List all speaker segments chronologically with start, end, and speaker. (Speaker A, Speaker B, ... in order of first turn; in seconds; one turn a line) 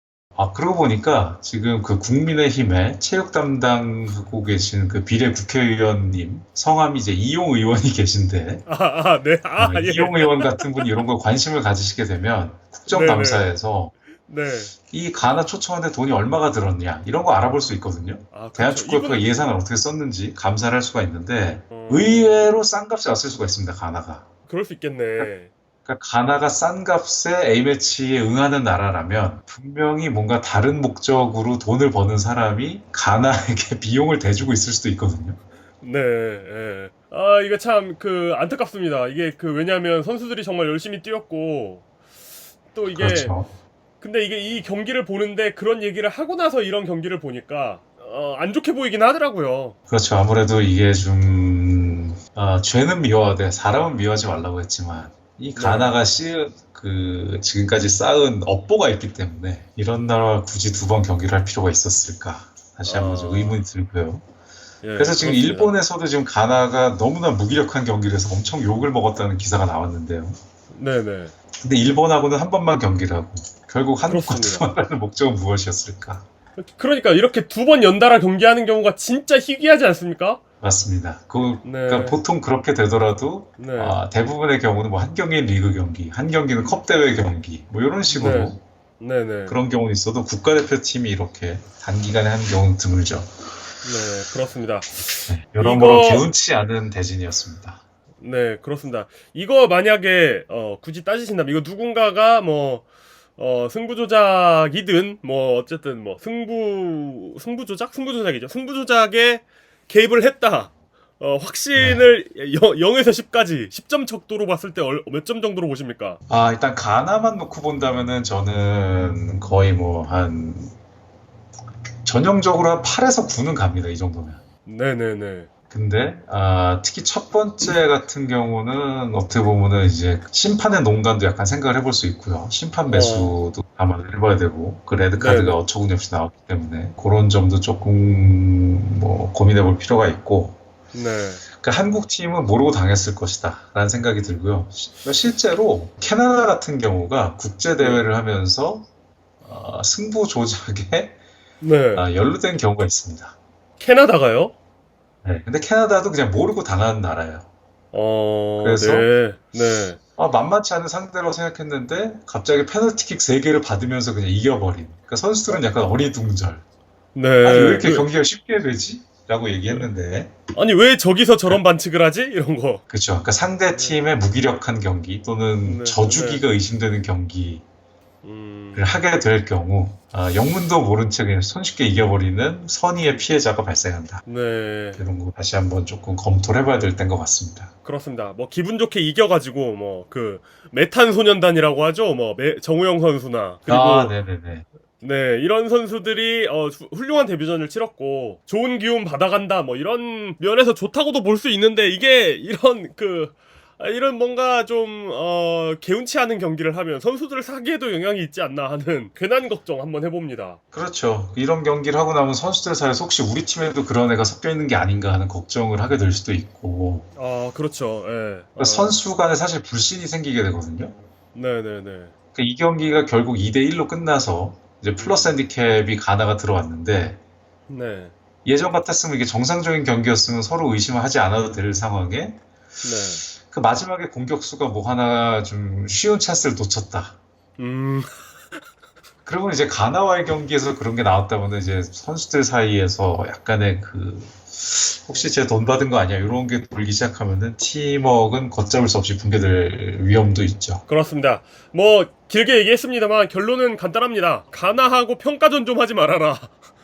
Speaker A: 0.3-8.7
Speaker B: 8.7-10.9
Speaker A: 9.6-13.9
Speaker B: 12.9-13.5
Speaker B: 14.2-14.7
Speaker A: 14.9-24.2
Speaker B: 18.3-19.5
Speaker B: 21.7-22.5
Speaker B: 24.5-25.5
Speaker A: 25.9-35.4
Speaker B: 35.8-41.8
Speaker B: 42.7-43.4
Speaker A: 42.9-43.5
Speaker B: 44.0-49.8
Speaker A: 49.9-64.2
Speaker B: 55.5-55.9
Speaker B: 62.9-63.6
Speaker B: 64.8-65.7
Speaker A: 65.0-70.4
Speaker B: 70.7-71.3
Speaker A: 71.6-76.2
Speaker B: 74.0-74.7
Speaker B: 76.6-80.4
Speaker A: 80.6-88.6
Speaker B: 81.6-82.2
Speaker B: 83.6-84.0
Speaker B: 88.1-89.6
Speaker A: 89.5-93.3
Speaker B: 93.8-96.3
Speaker A: 95.3-97.8
Speaker B: 98.2-102.8
Speaker B: 103.4-116.2
Speaker A: 111.8-112.0
Speaker A: 116.3-120.7
Speaker A: 122.0-124.4
Speaker B: 124.6-125.5
Speaker A: 125.7-140.6
Speaker B: 132.9-133.4
Speaker B: 135.1-135.6
Speaker B: 140.9-141.4
Speaker A: 141.6-148.9
Speaker B: 147.8-148.1
Speaker A: 149.4-151.2
Speaker B: 151.6-152.1
Speaker A: 151.9-153.3
Speaker B: 153.8-154.5
Speaker A: 155.2-157.5
Speaker B: 157.9-160.0
Speaker A: 158.6-159.1
Speaker A: 160.2-166.6
Speaker B: 167.1-168.1
Speaker A: 167.4-170.3
Speaker B: 170.5-172.8
Speaker A: 172.9-177.6
Speaker B: 175.6-176.4
Speaker B: 178.2-179.0
Speaker A: 178.7-184.2
Speaker B: 184.2-185.1
Speaker A: 185.0-187.7
Speaker B: 187.8-194.1
Speaker A: 193.7-194.7
Speaker B: 195.0-210.6
Speaker A: 210.7-217.1
Speaker B: 217.2-219.0
Speaker A: 218.6-220.9
Speaker B: 221.3-222.1
Speaker A: 222.3-227.2
Speaker B: 225.0-225.3
Speaker B: 227.7-228.1
Speaker A: 228.4-232.4
Speaker B: 232.8-233.2
Speaker A: 233.3-237.2
Speaker B: 237.6-238.2
Speaker A: 239.2-250.8
Speaker B: 250.9-256.6